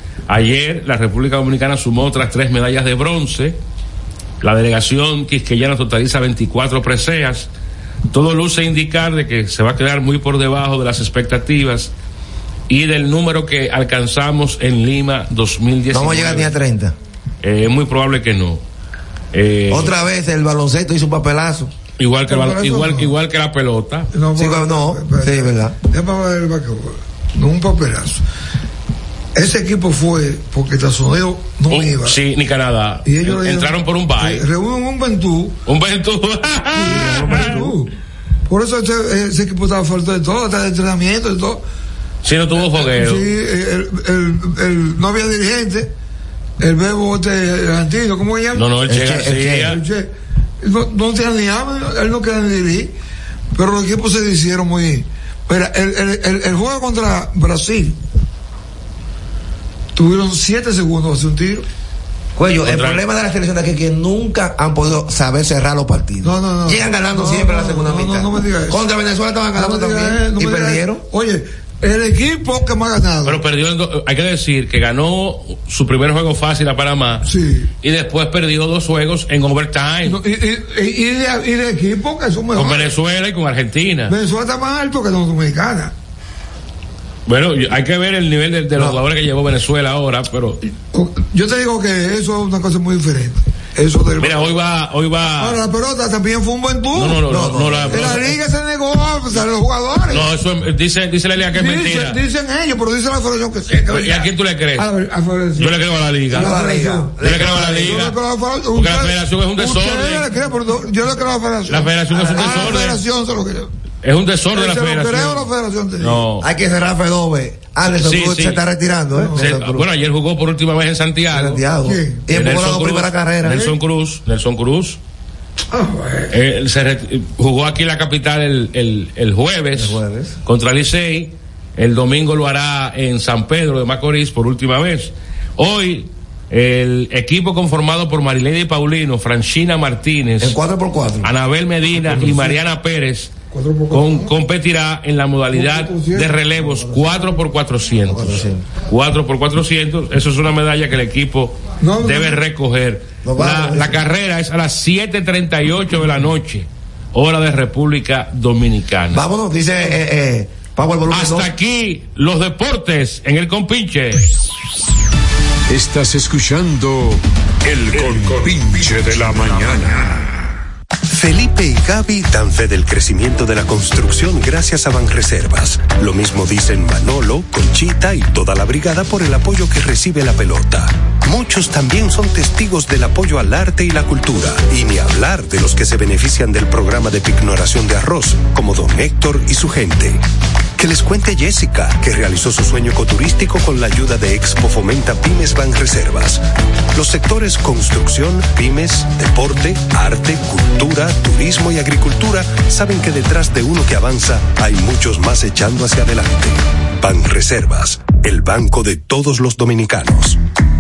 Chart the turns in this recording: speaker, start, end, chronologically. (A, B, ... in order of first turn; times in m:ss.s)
0:00.3-0:03.6 A
0:04.4-0:07.5 A
0:08.1-0:11.9 A
0:12.7-0:16.5 A
0:15.9-0:16.9 B
0:17.4-0:18.6 A
0:19.3-0:19.9 A
0:19.7-0:21.7 B
0:22.0-0:24.1 A
0:22.3-0:23.1 C
0:24.1-0:28.2 C
0:24.4-0:25.8 B
0:29.3-0:32.2 C
0:31.7-0:34.4 A
0:33.0-0:35.6 C
0:35.6-0:37.6 A
0:36.7-0:37.9 C
0:37.0-0:37.7 B
0:38.5-0:41.6 C
0:42.2-0:43.3 A
0:42.6-0:45.9 C
0:46.6-0:48.7 C
0:48.5-0:49.8 A
0:48.9-0:49.8 B
0:49.5-0:52.9 C
0:53.5-0:58.0 C
0:59.9-1:01.6 C
1:02.4-1:11.0 B
1:02.6-1:03.0 A
1:06.2-1:08.8 C
1:09.5-1:13.4 C
1:13.2-1:17.3 A
1:17.2-1:17.7 C
1:17.8-1:20.2 A
1:20.0-1:22.9 C
1:22.5-1:24.2 A
1:24.1-1:25.9 C
1:27.2-1:30.6 A
1:30.9-1:34.5 C
1:34.2-1:35.6 A
1:35.4-1:37.3 C
1:36.9-1:38.3 A
1:37.3-1:38.3 B
1:37.9-1:40.3 C
1:40.1-1:42.2 A
1:41.5-1:45.8 C
1:43.8-1:44.9 A
1:45.6-1:46.5 A
1:46.3-1:53.7 C
1:46.3-1:48.0 B
1:47.2-1:48.2 A
1:48.7-1:50.3 A
1:51.7-1:53.0 A
1:52.3-1:52.7 B
1:54.0-1:56.5 A
1:54.5-1:56.2 C
1:56.4-1:59.9 B
1:57.9-1:58.6 A
1:59.1-1:59.5 C
1:59.3-2:01.6 A
2:01.3-2:03.7 B
2:01.8-2:02.2 C
2:02.3-2:05.0 A
2:05.7-2:06.3 C
2:06.3-2:20.6 A
2:09.7-2:10.4 B
2:20.4-2:21.3 B
2:21.2-2:23.3 A
2:22.0-2:22.6 C
2:23.5-2:24.3 C
2:23.9-2:39.2 A
2:25.5-2:26.4 C
2:26.6-2:27.2 B
2:28.0-2:28.6 B
2:31.8-2:32.4 C
2:33.2-2:34.0 B
2:39.1-2:41.5 B
2:41.1-2:44.3 A
2:45.7-2:50.3 D
2:51.1-3:10.2 E
3:10.8-3:30.4 E